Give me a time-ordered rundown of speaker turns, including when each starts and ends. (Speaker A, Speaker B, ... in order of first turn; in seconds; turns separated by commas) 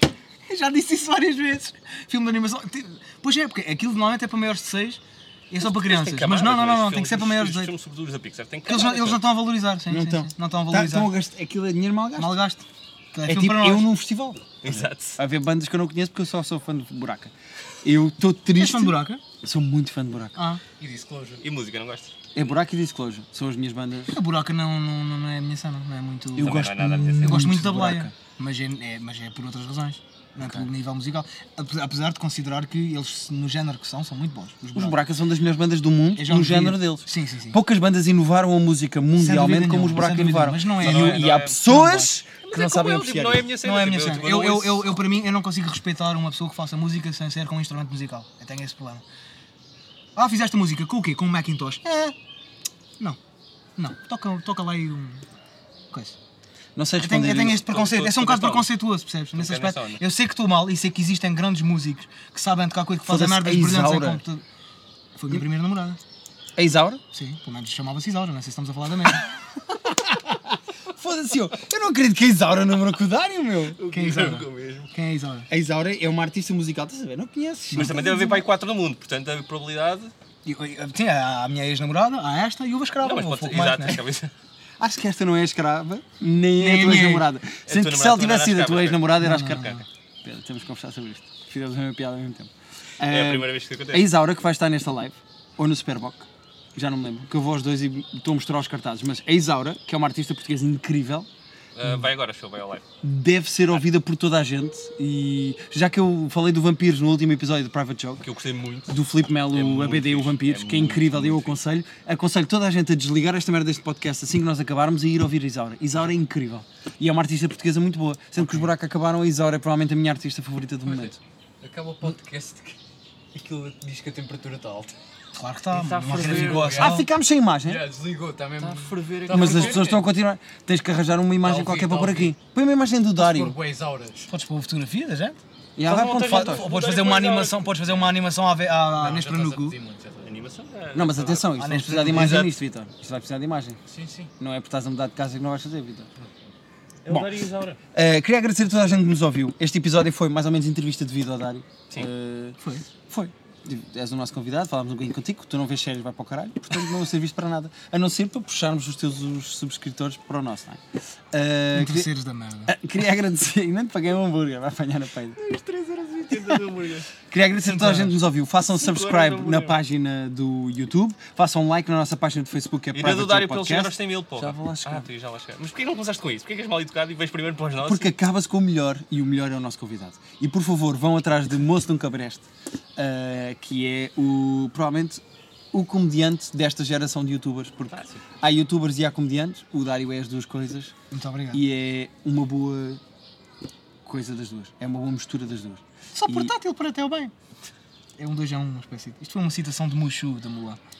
Speaker A: 0.5-7.7, Speaker B: 5.6-9.2, Speaker A: 8.7-11.1, Speaker C: 9.9-12.3, Speaker A: 12.2-13.9, Speaker C: 13.2-20.4, Speaker B: 14.6-15.2, Speaker A: 18.6-19.2, Speaker A: 20.4-20.6, Speaker D: 20.8-21.4, Speaker B: 21.4-22.1, Speaker C: 22.3-24.2, Speaker A: 24.1-35.0, Speaker C: 26.4-28.1, Speaker B: 26.4-27.5, Speaker C: 30.4-30.7, Speaker C: 34.7-43.5, Speaker A: 36.1-37.6, Speaker A: 39.2-42.2, Speaker B: 40.8-41.6, Speaker B: 42.4-45.0, Speaker A: 43.6-49.0, Speaker A: 50.1-52.1, Speaker A: 53.8-55.2, Speaker A: 55.9-56.2, Speaker C: 56.8-57.6, Speaker A: 57.0-64.4, Speaker B: 57.6-58.7, Speaker B: 59.3-60.0, Speaker C: 63.0-64.2, Speaker A: 65.2-66.0, Speaker C: 66.5-67.0, Speaker A: 67.1-69.3, Speaker C: 69.8-73.8, Speaker B: 73.8-74.9, Speaker A: 73.9-75.5, Speaker C: 75.5-78.3, Speaker B: 77.7-80.1, Speaker A: 77.8-78.3, Speaker A: 80.4-84.0, Speaker B: 83.0-84.3, Speaker C: 84.8-101.3, Speaker A: 86.5-87.3, Speaker B: 87.7-89.7, Speaker A: 89.2-89.8, Speaker B: 93.1-94.1, Speaker B: 101.7-102.8, Speaker C: 103.0-108.3, Speaker B: 108.2-108.9, Speaker C: 108.9-121.2, Speaker B: 109.5-111.6, Speaker A: 118.4-118.7, Speaker D: 120.9-122.8, Speaker D: 123.3-125.0, Speaker A: 125.3-127.1, Speaker B: 125.7-126.8, Speaker D: 126.0-127.1, Speaker C: 126.8-127.8, Speaker D: 127.6-130.1, Speaker B: 128.6-129.9, Speaker C: 129.3-133.6, Speaker D: 131.4-132.3, Speaker D: 133.2-134.3, Speaker A: 134.3-135.4, Speaker C: 135.8-136.7, Speaker B: 135.8-138.1, Speaker A: 136.2-139.8, Speaker D: 138.9-140.3, Speaker B: 140.2-142.5, Speaker C: 140.9-143.8, Speaker A: 141.5-142.5, Speaker D: 143.9-144.3, Speaker C: 144.4-146.1, Speaker B: 147.0-147.8, Speaker C: 147.1-152.6, Speaker C: 153.1-162.1, Speaker A: 161.7-162.8, Speaker C: 162.7-165.4, Speaker B: 165.3-167.1, Speaker C: 167.3-175.1, Speaker A: 167.6-168.2, Speaker B: 168.7-169.7, Speaker B: 172.9-178.1, Speaker C: 177.8-190.9, Speaker B: 187.9-188.2, Speaker A: 191.1-191.6, Speaker C: 191.5-193.0, Speaker C: 194.0-196.5, Speaker A: 196.1-197.3, Speaker A: 198.2-200.8